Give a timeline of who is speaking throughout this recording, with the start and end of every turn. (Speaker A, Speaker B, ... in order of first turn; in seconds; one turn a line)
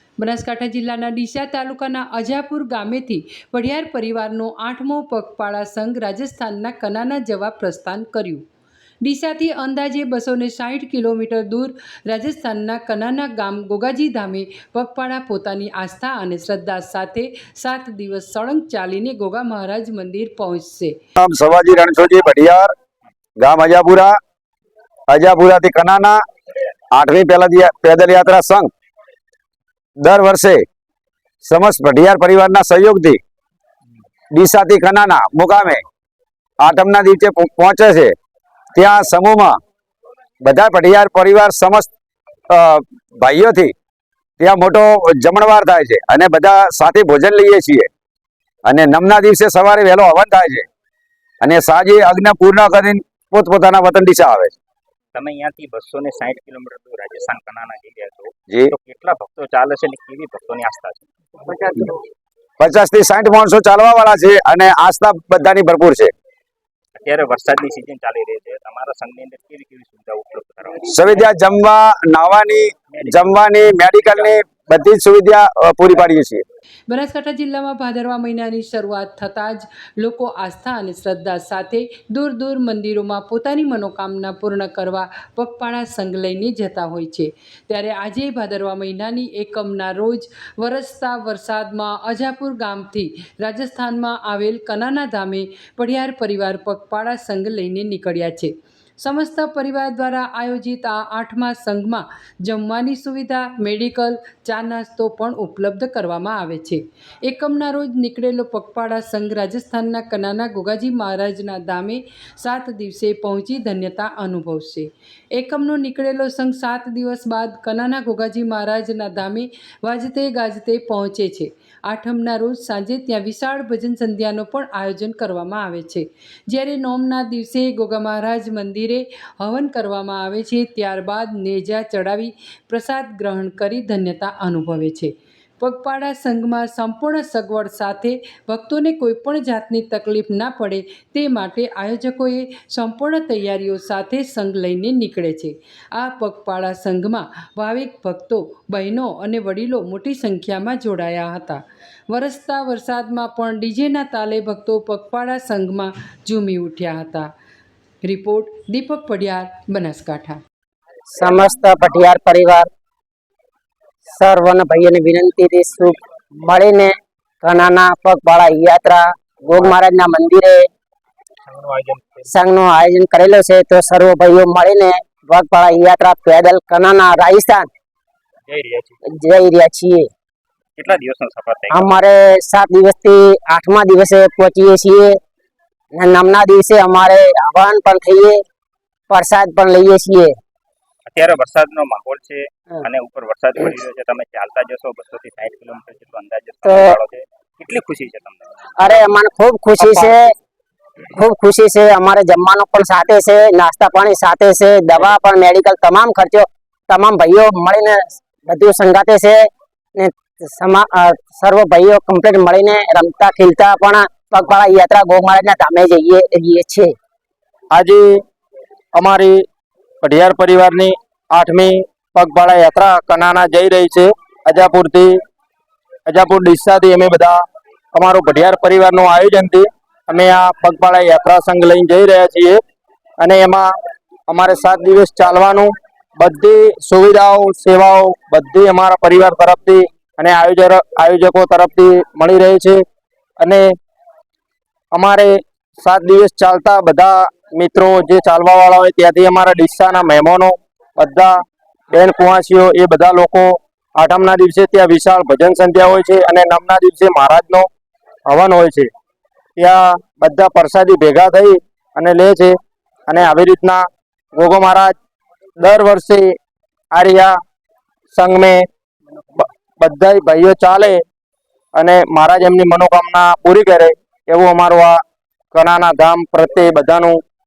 Speaker A: 0.2-8.4
Speaker A: 9.0-20.9
Speaker B: 21.2-22.7
Speaker B: 23.4-24.1
Speaker B: 25.1-26.2
Speaker B: 26.9-28.7
Speaker B: 30.0-30.6
Speaker B: 31.4-33.2
Speaker B: 34.3-35.8
Speaker B: 36.6-38.1
Speaker B: 38.7-39.6
Speaker B: 40.4-41.9
Speaker B: 42.5-43.7
Speaker B: 44.4-47.9
Speaker B: 48.6-50.7
Speaker B: 51.4-54.5
Speaker C: 55.1-61.0
Speaker B: 62.6-66.1
Speaker C: 67.0-71.2
Speaker B: 70.9-76.4
Speaker C: 72.9-73.4
Speaker A: 76.9-157.3
Speaker A: 158.0-160.4
Speaker D: 161.2-162.7
Speaker D: 164.2-170.7
Speaker C: 171.4-172.3
Speaker D: 172.3-177.7
Speaker C: 178.5-178.9
Speaker D: 179.1-180.1
Speaker C: 180.8-181.9
Speaker D: 181.7-185.2
Speaker D: 185.9-188.4
Speaker D: 189.1-190.3
Speaker C: 191.1-198.9
Speaker D: 196.6-197.0
Speaker D: 198.8-200.3
Speaker D: 201.1-216.9
Speaker E: 217.7-218.2
Speaker E: 218.9-219.4
Speaker E: 220.0-225.2
Speaker E: 226.1-227.4
Speaker E: 227.9-232.6
Speaker E: 233.2-233.7
Speaker E: 234.3-242.8
Speaker E: 243.4-243.7
Speaker E: 244.9-251.4
Speaker E: 251.9-257.7
Speaker E: 258.3-258.9
Speaker E: 259.6-262.6
Speaker E: 263.1-264.9
Speaker E: 265.6-266.3
Speaker E: 266.9-267.4
Speaker E: 268.1-268.6
Speaker E: 269.4-271.0
Speaker E: 271.8-275.0
Speaker E: 275.5-277.2